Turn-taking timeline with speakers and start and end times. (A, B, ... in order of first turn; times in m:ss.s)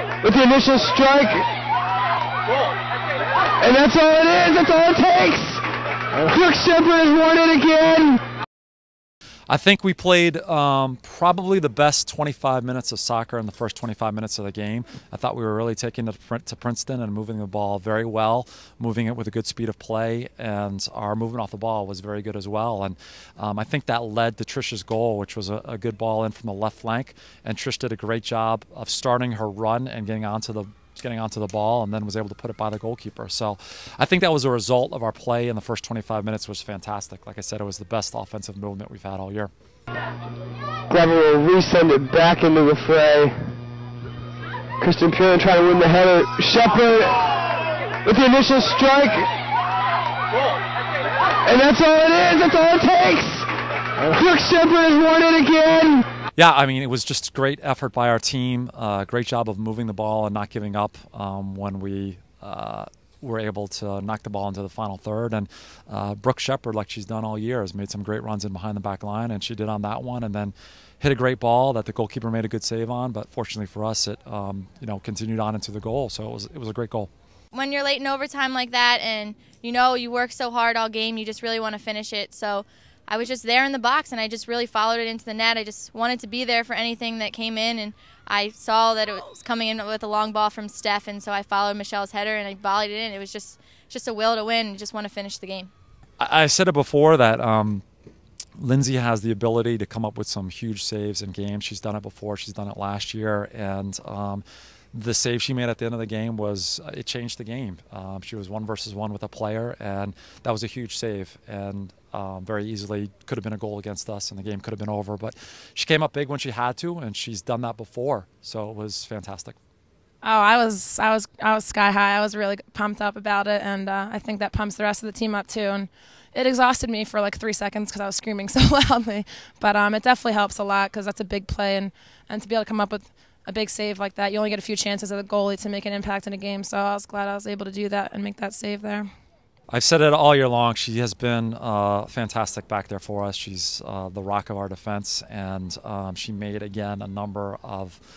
0:00.2-0:01.5 A
0:03.6-0:08.2 A
0:09.5-0:39.5 B
0:40.9-0:43.5 A
0:44.8-0:47.3 A
0:48.0-0:49.3 A
0:51.4-0:56.0 A
0:56.4-1:17.1 B
1:17.5-1:35.7 C
1:36.2-1:37.8 B
1:38.6-1:59.6 B
2:00.2-2:19.1 D
2:19.7-2:28.0 B